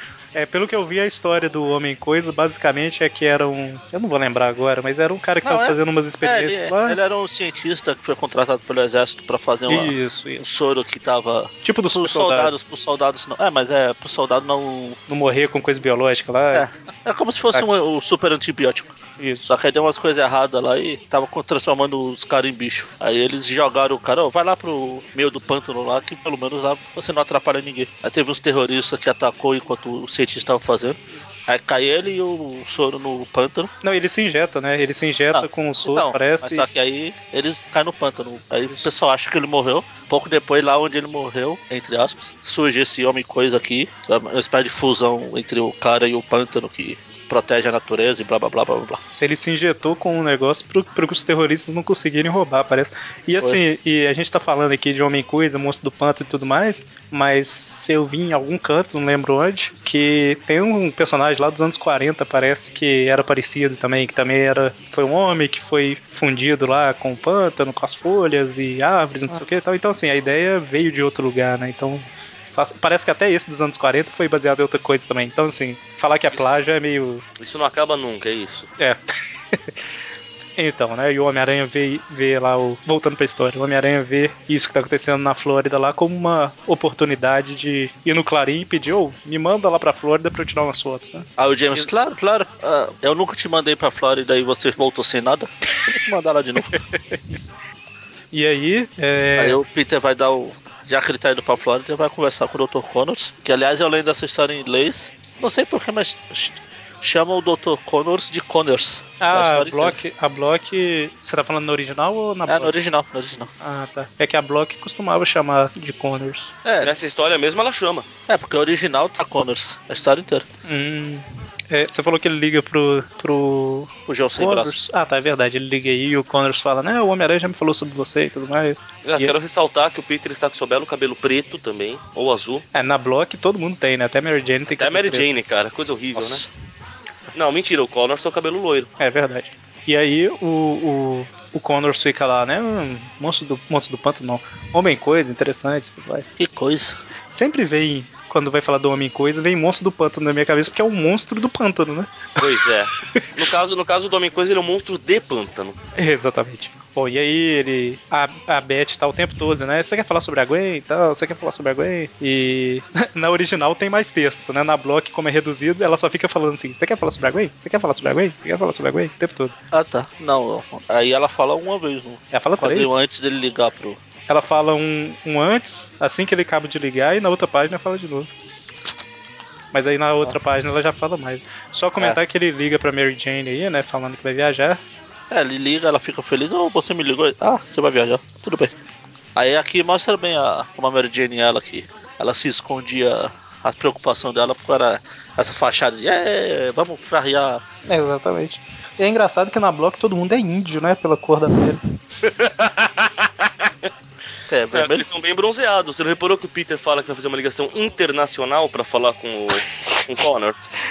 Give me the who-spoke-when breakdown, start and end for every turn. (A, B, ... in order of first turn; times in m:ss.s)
0:00.3-0:07.0 A
0:05.4-0:15.0 B
0:09.7-0:10.5 A
0:11.6-0:12.5 A
0:15.1-0:16.7 A
0:16.5-0:18.9 B
0:17.5-0:17.8 A
0:19.2-0:19.5 A
0:19.5-0:33.7 B
0:33.8-0:36.6 A
0:35.3-0:49.0 B
0:38.7-0:38.9 A
0:49.1-1:17.2 A
1:17.4-1:18.7 C
1:20.6-1:31.9 A
1:31.4-1:36.8 B
1:36.8-1:37.2 A
1:38.3-1:39.6 A
1:39.4-1:50.0 B
1:49.2-1:52.7 A
1:52.5-1:53.5 B
1:53.6-1:56.5 A
1:56.6-1:56.9 B
1:56.8-1:58.1 C
1:58.3-2:00.4 B
2:00.6-2:09.3 A
2:04.1-2:04.7 B
2:09.0-2:12.6 C
2:12.7-2:15.3 A
2:14.8-2:16.4 C
2:16.2-2:16.5 B
2:17.3-2:18.9 C
2:19.0-2:26.2 A
2:26.4-2:27.0 B
2:27.3-2:32.3 A
2:32.4-2:35.8 C
2:36.0-2:49.5 A
2:49.7-2:54.0 B
2:52.3-2:53.0 A
2:54.3-2:58.3 A
2:59.7-3:04.8 A
3:05.3-3:08.7 B
3:09.3-3:17.6 B
3:17.9-3:21.8 A
3:22.2-3:23.3 C
3:24.5-3:25.0 B
3:24.7-3:30.7 C